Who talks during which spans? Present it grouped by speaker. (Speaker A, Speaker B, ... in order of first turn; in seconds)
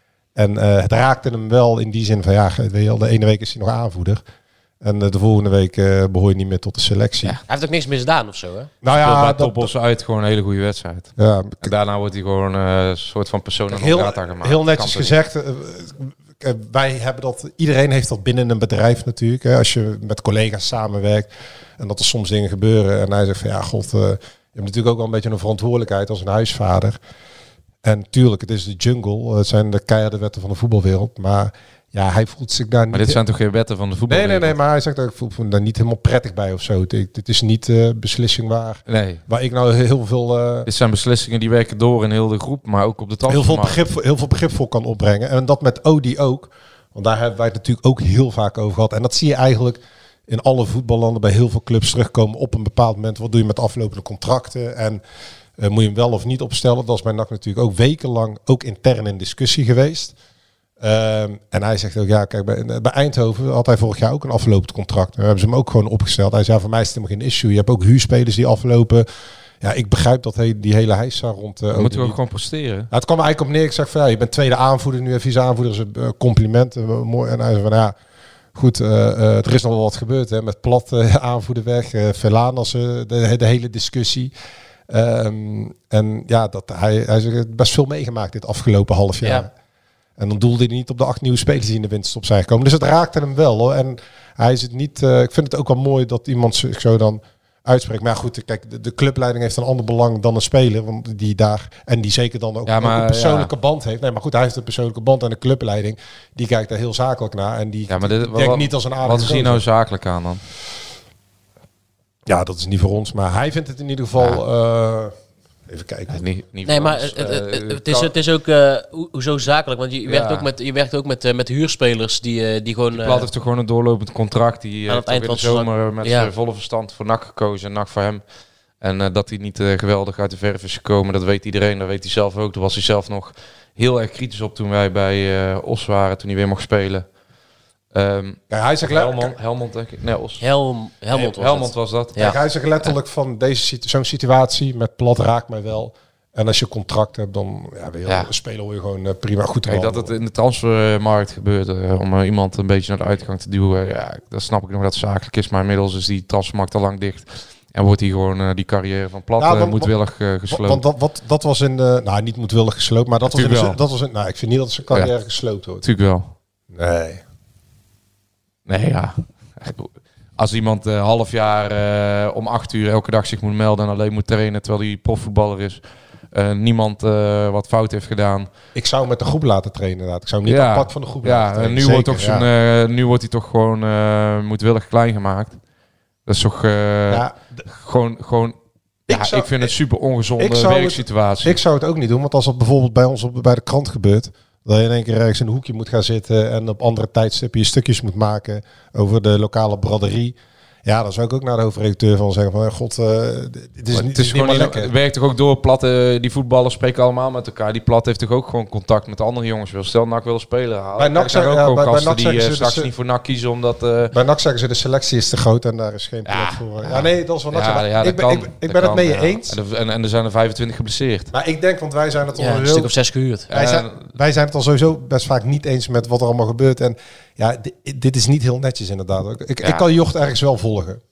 Speaker A: 0.4-4.2, 4.8-7.4, 8.8-9.7, 11.2-11.7, 13.7-27.0, 27.8-33.2, 34.1-40.7, 43.3-55.0, 55.6-60.1, 60.8-69.1, 69.6-72.2, 72.9-78.0, 78.5-84.3, 84.9-89.5, 90.2-109.6, 112.3-115.2, 115.7-116.2, 138.5-139.4, 142.2-150.1, 159.4-159.9, 160.5-165.8, 166.7-167.2, 178.8-182.5, 187.1-187.6, 189.1-189.7, 190.4-204.9, 211.0-212.9, 214.1-219.6, 221.3-222.9, 223.5-231.0
Speaker B: 7.5-8.7, 116.7-123.3, 124.9-126.3, 140.4-142.4, 222.4-223.5
Speaker C: 8.9-15.1, 32.9-34.6, 38.9-39.2, 40.7-43.8, 71.7-72.9, 102.7-103.5, 107.9-110.4, 114.2-114.4, 116.1-118.1, 120.1-120.5, 122.9-128.2, 128.8-137.1, 137.9-140.4, 141.1-142.3, 149.7-160.8, 163.3-163.8, 165.8-166.3, 168.7-175.8, 176.3-178.5, 180.5-185.6, 186.3-188.6, 189.1-191.6, 203.9-214.1, 216.3-221.3, 223.5-224.1